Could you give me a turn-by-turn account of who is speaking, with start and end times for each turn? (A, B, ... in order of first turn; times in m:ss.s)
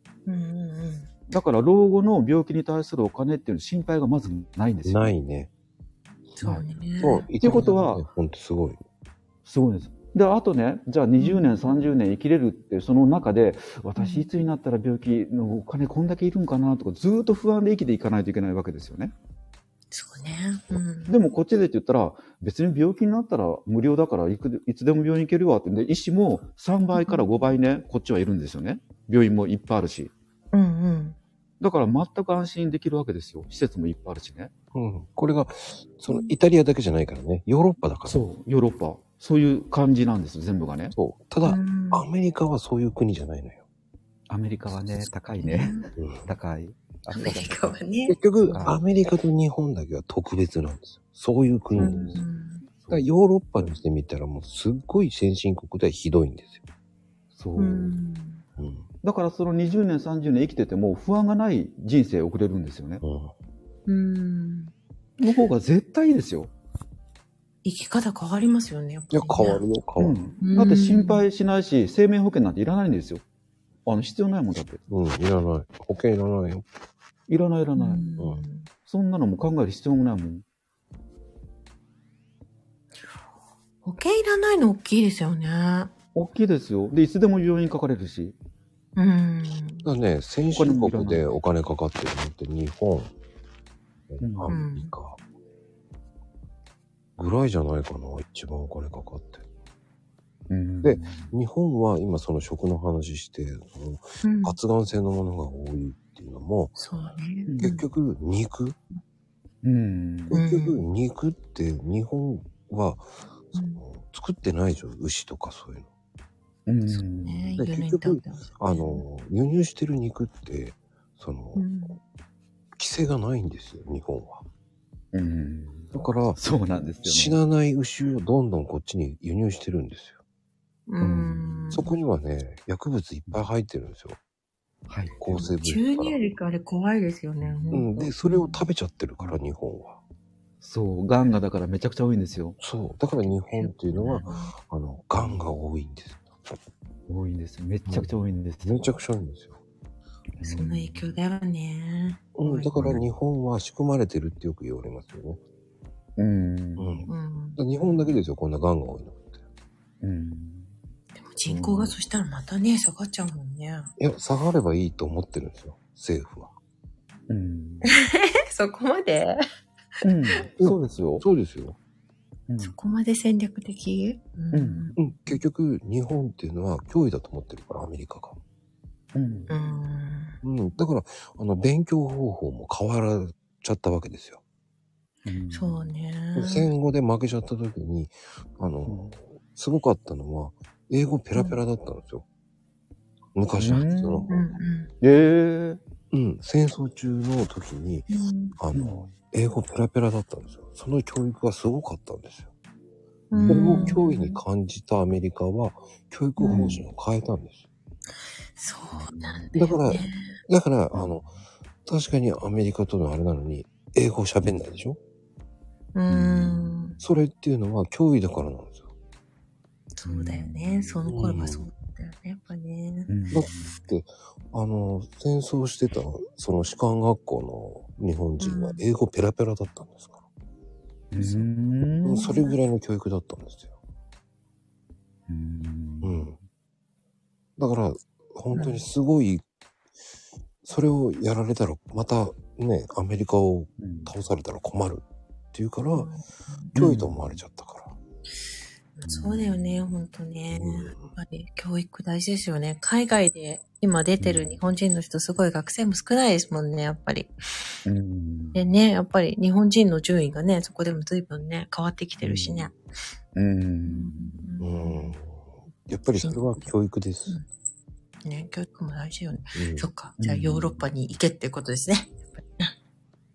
0:00.2-0:01.1 A
0:01.3-0:05.2 B
0:04.8-0:05.5 C
0:06.4-0:07.3 A
0:07.0-0:08.8 C
0:07.4-0:08.0 B
0:09.4-0:19.1 B
0:11.2-0:11.9 A
0:14.0-0:14.3 A
0:19.9-0:21.1 A
0:21.1-0:30.1 B
0:26.9-0:27.4 A
0:30.5-0:31.2 A
0:31.6-0:34.5 B
0:34.7-0:38.2 C
0:36.1-0:36.3 A
0:38.0-0:40.9 B
0:40.9-0:43.6 C
0:41.4-0:42.0 A
0:44.3-0:47.7 B
0:45.4-0:45.9 A
0:46.0-0:46.3 C
0:47.1-0:48.2 A
0:48.1-0:52.2 C
0:48.4-0:48.8 B
0:51.8-0:52.2 B
0:51.8-0:52.6 A
0:52.8-0:53.0 B
0:52.9-0:56.6 C
0:57.4-0:57.9 B
0:57.6-0:58.4 A
0:58.6-0:58.8 C
0:59.0-1:03.0 B
1:03.0-1:03.3 C
1:03.9-1:04.7 A
1:05.2-1:06.5 B
1:07.6-1:09.6 A
1:09.1-1:10.2 C
1:10.0-1:13.2 B
1:10.4-1:11.2 A
1:13.8-1:14.8 B
1:14.9-1:16.6 C
1:17.3-1:18.0 B
1:17.8-1:18.7 A
1:18.2-1:18.4 C
1:18.8-1:20.4 B
1:23.8-1:25.9 A
1:26.1-1:28.4 B
1:29.0-1:29.9 A
1:29.8-1:33.1 C
1:30.5-1:31.2 B
1:34.1-1:35.2 C
1:34.2-1:34.5 B
1:34.5-1:34.9 A
1:37.2-1:39.4 C
1:40.5-1:41.3 B
1:40.8-1:46.8 C
1:44.2-1:44.6 A
1:46.8-1:47.8 A
1:47.5-1:47.8 B
1:47.6-1:48.8 C
1:49.6-1:50.4 B
1:50.3-1:55.9 C
1:50.3-1:50.8 A
1:53.5-1:53.8 A
1:56.7-1:57.5 B
1:56.9-1:59.0 A
1:57.6-2:01.7 C
2:01.6-2:02.0 A
2:02.8-2:04.4 C
2:05.1-2:07.4 B
2:05.9-2:06.4 C
2:07.0-2:10.2 C
2:10.9-2:11.9 A
2:11.0-2:11.8 B
2:11.7-2:14.2 C
2:14.9-2:15.5 B
2:15.2-2:16.2 C
2:15.6-2:18.6 A
2:17.4-2:17.9 B
2:17.7-2:20.0 C
2:20.6-2:22.6 B
2:22.6-2:26.5 C
2:23.5-2:24.5 A
2:23.9-2:24.3 B
2:25.2-2:25.5 B
2:27.1-2:29.0 B
2:28.6-2:29.6 C
2:30.4-2:31.1 B
2:30.4-2:33.0 A
2:32.4-2:35.4 C
2:32.8-2:33.0 B
2:36.2-2:37.1 B
2:36.8-2:39.4 C
2:37.1-2:37.6 A
2:40.0-2:40.7 B
2:41.2-2:43.9 A
2:41.4-2:41.9 B
2:44.0-2:46.5 C
2:47.3-2:47.9 B
2:47.9-2:49.4 A
2:50.0-2:51.2 B
2:50.6-2:51.8 C
2:52.5-2:52.8 B
2:52.6-2:55.3 A
2:54.5-2:54.9 B
2:55.0-2:58.4 C
2:59.1-2:59.5 B
2:59.5-3:00.4 A
3:00.4-3:04.4 C
3:05.2-3:05.9 B
3:05.5-3:06.7 A
3:06.3-3:12.2 C
3:08.8-3:09.2 B
3:13.3-3:14.3 C
3:13.6-3:14.4 B
3:14.3-3:14.9 A
3:15.0-3:15.8 B
3:16.1-3:22.5 C
3:18.1-3:18.6 A
3:18.7-3:19.1 B
3:23.3-3:24.4 A
3:23.3-3:24.0 B
3:23.5-3:27.6 C
3:26.4-3:26.8 A
3:26.5-3:26.8 B
3:28.6-3:30.4 A
3:28.9-3:29.5 B
3:29.5-3:31.3 C
3:30.9-3:31.3 B
3:31.8-3:35.0 C
3:35.9-3:37.0 A
3:36.1-3:36.8 B
3:37.0-3:38.9 C
3:39.9-3:43.1 A
3:40.0-3:41.0 B
3:41.0-3:41.7 C
3:43.1-3:43.8 B
3:43.3-3:50.2 C
3:48.4-3:48.8 A
3:51.1-3:52.3 B
3:51.2-3:51.5 A
3:52.0-3:53.7 C
3:52.1-3:52.6 A
3:55.3-3:56.3 B
3:56.0-3:56.4 C
3:57.6-3:59.4 C
3:58.5-3:58.8 A
4:00.6-4:06.1 C
4:03.8-4:04.1 B
4:05.9-4:06.7 A
4:06.7-4:07.9 C
4:06.8-4:07.4 B
4:09.0-4:17.4 A
4:09.0-4:09.9 B
4:10.5-4:11.1 C
4:14.2-4:14.5 B
4:17.8-4:18.7 B
4:18.5-4:22.7 A
4:22.2-4:22.7 B
4:23.4-4:24.5 B
4:23.8-4:25.2 A
4:24.6-4:27.4 C
4:26.2-4:26.7 A
4:28.2-4:32.7 A
4:29.5-4:29.9 C
4:30.2-4:30.8 B